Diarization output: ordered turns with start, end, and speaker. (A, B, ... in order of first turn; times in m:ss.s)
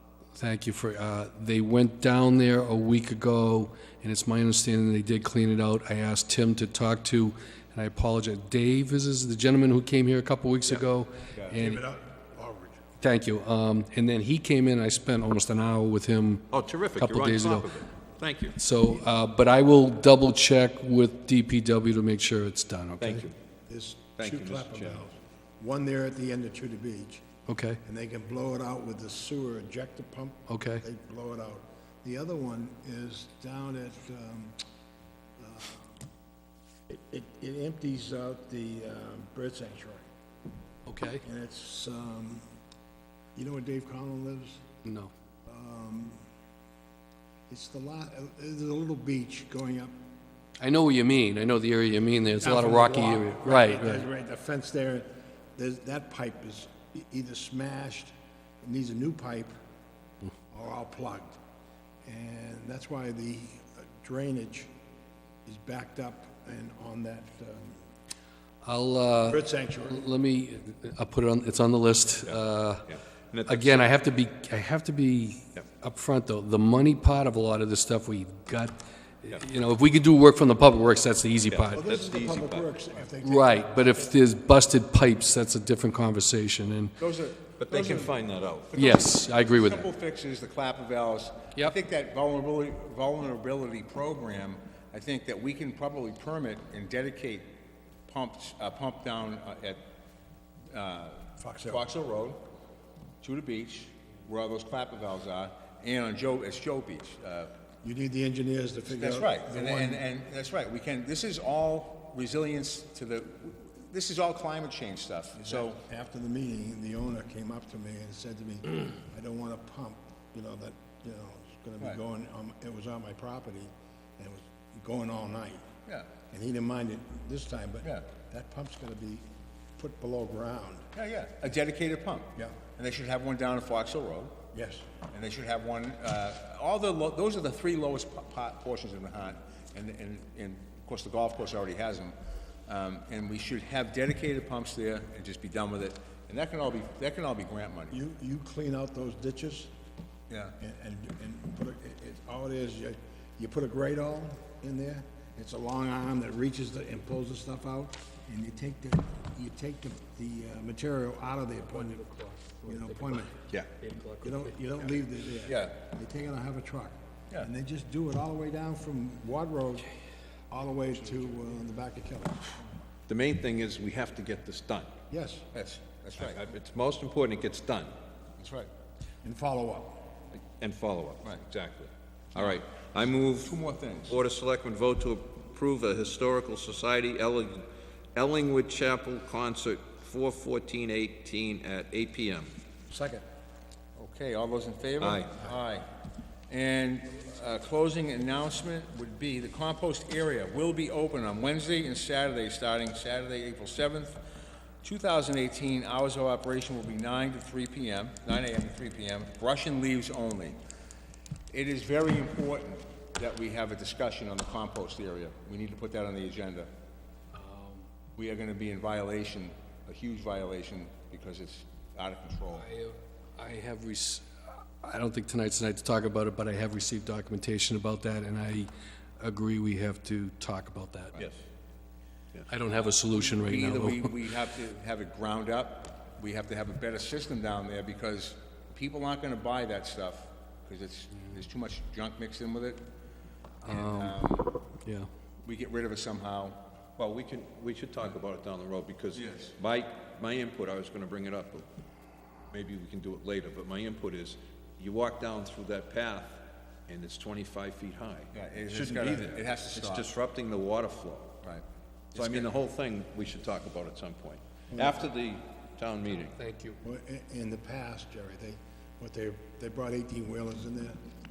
0:00.4-0:11.8 A
0:11.6-0:12.8 B
0:13.0-0:17.8 A
0:16.5-0:18.6 C
0:18.6-0:23.3 A
0:23.0-0:23.3 C
0:23.7-0:27.2 B
0:24.2-0:25.0 C
0:27.5-0:27.8 A
0:27.8-0:34.6 B
0:30.5-0:30.8 A
0:35.4-0:36.0 B
0:36.9-0:40.1 B
0:40.9-0:41.2 A
0:41.2-0:42.4 B
0:43.4-0:44.6 B
0:44.8-0:45.1 A
0:45.5-0:46.2 B
0:47.5-0:50.0 B
0:50.6-0:54.1 A
0:52.4-0:59.5 B
1:00.5-1:01.4 B
1:02.0-1:04.7 B
1:05.4-1:07.8 B
1:08.6-1:12.9 A
1:09.3-1:10.1 B
1:12.3-1:14.0 C
1:13.5-1:21.8 A
1:21.5-1:22.8 C
1:21.7-1:24.1 B
1:23.2-1:26.9 A
1:27.0-1:28.2 D
1:27.6-1:28.8 C
1:28.7-1:37.5 D
1:28.8-1:29.9 A
1:38.1-1:39.8 D
1:40.7-1:42.4 D
1:41.4-1:41.8 B
1:43.2-1:47.5 D
1:47.8-1:50.0 B
1:48.9-1:55.8 D
1:55.4-2:05.7 B
2:05.9-2:06.1 D
2:06.3-2:09.3 B
2:09.8-2:10.9 B
2:10.9-2:14.4 D
2:14.5-2:14.9 B
2:15.1-2:28.0 D
2:27.9-2:29.7 B
2:30.3-2:30.6 D
2:30.6-2:42.1 B
2:41.6-2:44.6 A
2:42.6-2:43.4 B
2:44.2-2:49.9 B
2:45.4-2:45.8 D
2:50.5-2:52.6 B
2:53.1-2:54.9 C
2:55.1-2:55.5 B
2:55.5-2:56.4 D
2:56.2-2:57.9 C
2:58.4-2:58.7 D
2:59.2-3:00.1 B
3:00.5-3:12.5 C
3:03.4-3:04.2 D
3:12.9-3:13.2 B
3:14.0-3:15.9 D
3:15.0-3:15.3 C
3:16.5-3:24.2 D
3:24.8-3:30.6 D
3:31.5-3:36.7 D
3:37.3-3:37.8 A
3:38.2-3:42.7 D
3:42.5-3:51.2 A
3:52.5-3:54.2 A
3:53.0-4:02.8 D
4:03.6-4:05.1 A
4:03.7-4:04.5 D
4:05.4-4:06.6 D
4:07.0-4:11.7 C
4:09.1-4:09.6 D
4:12.5-4:21.4 C
4:18.3-4:20.1 D
4:21.4-4:22.5 D
4:22.2-4:26.4 C
4:24.7-4:25.0 B
4:26.2-4:26.8 A
4:26.8-4:31.0 B